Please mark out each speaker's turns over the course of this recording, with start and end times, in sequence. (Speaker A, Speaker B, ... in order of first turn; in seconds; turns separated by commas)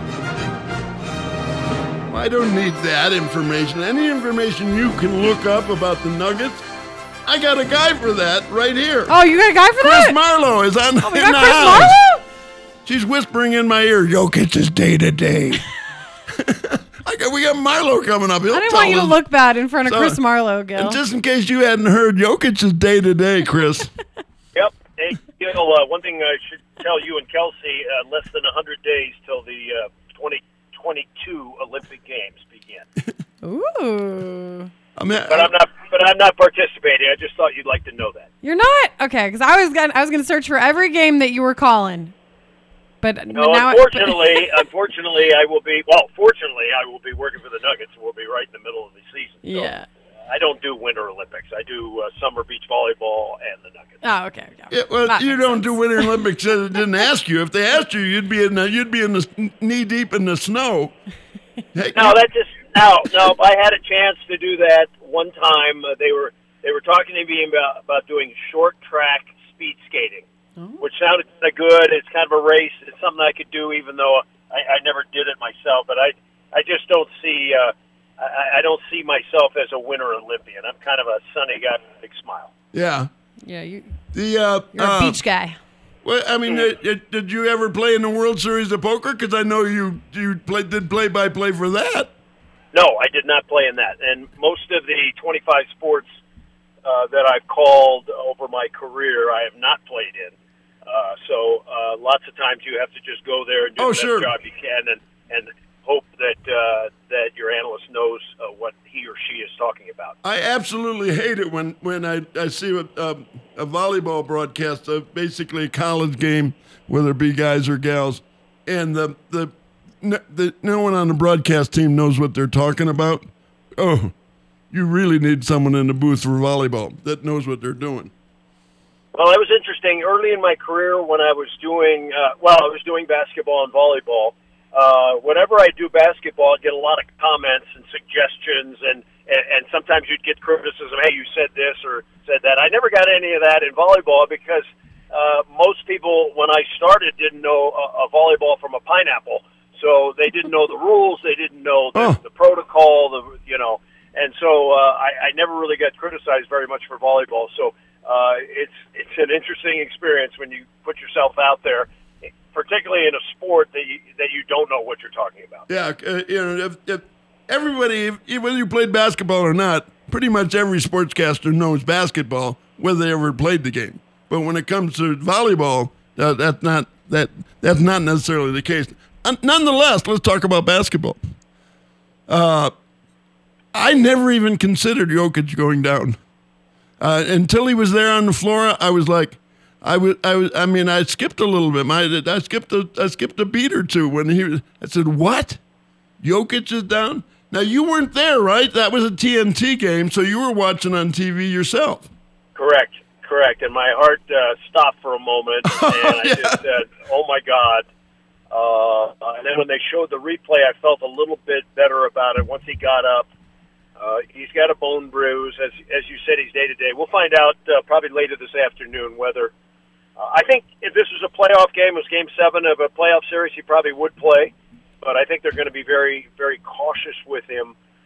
Speaker A: 2.1-6.6, Speaker A: 7.3-9.1, Speaker B: 9.1-10.2, Speaker A: 9.8-12.0, Speaker B: 11.0-12.2, Speaker A: 12.8-15.6, Speaker A: 16.3-19.2, Speaker B: 18.5-21.0, Speaker A: 19.9-20.2, Speaker A: 20.8-23.9, Speaker C: 24.6-32.9, Speaker B: 33.4-34.7, Speaker A: 35.0-35.5, Speaker C: 35.3-38.3, Speaker B: 38.4-42.1, Speaker B: 43.0-44.6, Speaker C: 43.3-49.7, Speaker B: 49.4-49.9, Speaker C: 50.3-54.0, Speaker B: 54.0-56.2, Speaker A: 54.7-61.0, Speaker A: 61.7-62.2, Speaker C: 61.9-70.3, Speaker C: 70.8-82.5, Speaker A: 82.7-83.1, Speaker B: 83.4-84.0, Speaker A: 84.1-85.2, Speaker B: 84.7-85.6, Speaker A: 86.0-92.1, Speaker C: 92.7-96.2, Speaker C: 96.8-100.3, Speaker C: 100.9-110.2, Speaker A: 103.8-104.3, Speaker A: 110.2-124.1, Speaker A: 124.7-128.1, Speaker C: 129.1-165.7, Speaker A: 165.7-181.2, Speaker A: 182.3-182.7, Speaker A: 183.7-186.2, Speaker A: 187.0-195.6, Speaker A: 196.2-202.1, Speaker C: 202.6-207.8, Speaker A: 205.7-206.6, Speaker C: 208.5-213.3, Speaker C: 214.0-219.5, Speaker C: 220.2-227.8